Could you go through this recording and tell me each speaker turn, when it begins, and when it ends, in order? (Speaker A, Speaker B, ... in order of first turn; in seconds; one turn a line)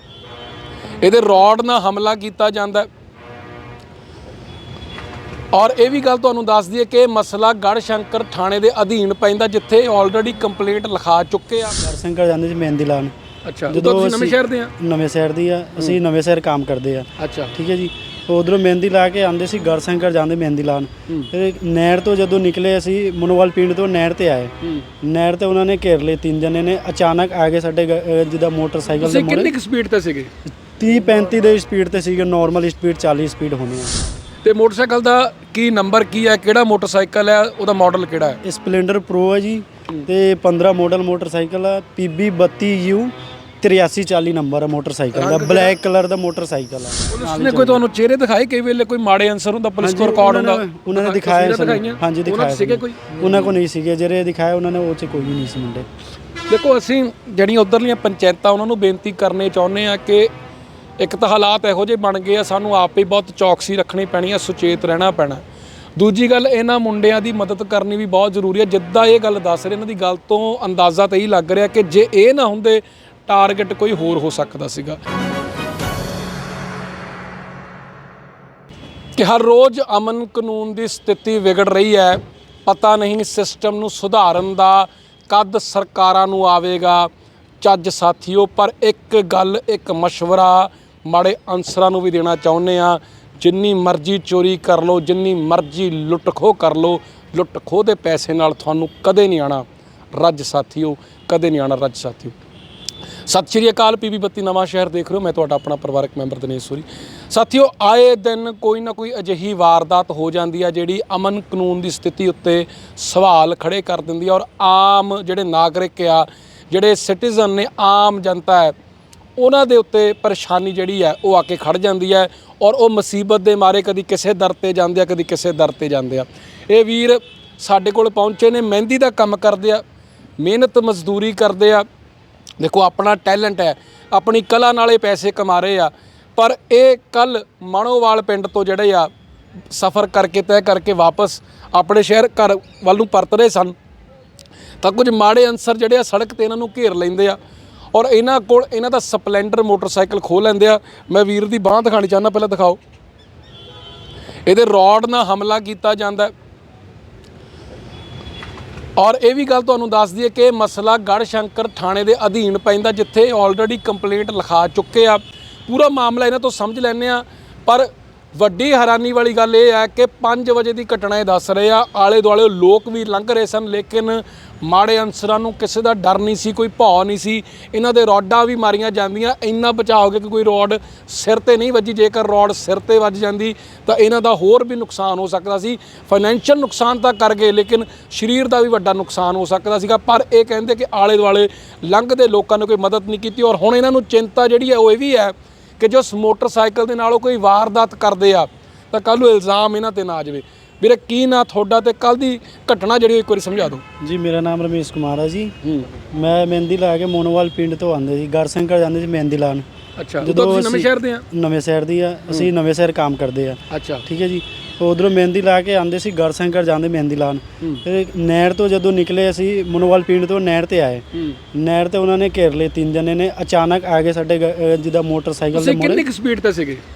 Speaker A: 1.0-2.9
Speaker A: 5.5-11.8
Speaker B: 11.8-13.1
Speaker A: 13.4-14.7
Speaker B: 13.7-29.5
Speaker A: 17.2-17.6
Speaker A: 29.0-30.3
Speaker B: 30.7-34.0
Speaker A: 34.4-38.4
Speaker B: 38.4-47.8
Speaker A: 45.1-45.8
Speaker A: 47.1-53.5
Speaker B: 49.8-55.9
Speaker A: 56.5-60.3
Speaker A: 61.0-65.4
Speaker A: 66.0-75.0
Speaker A: 79.2-87.1
Speaker A: 87.6-102.4
Speaker A: 103.3-118.8
Speaker A: 119.4-129.8
Speaker A: 130.4-131.9
Speaker A: 132.6-139.1
Speaker A: 139.7-143.8
Speaker A: 144.8-147.4
Speaker A: 147.9-152.8
Speaker A: 154.5-156.3
Speaker A: 159.0-203.8
Speaker B: 204.0-205.5
Speaker A: 205.6-205.9
Speaker B: 206.1-209.7
Speaker A: 210.0-211.2
Speaker B: 210.2-226.1
Speaker A: 213.7-214.1
Speaker A: 225.5-226.8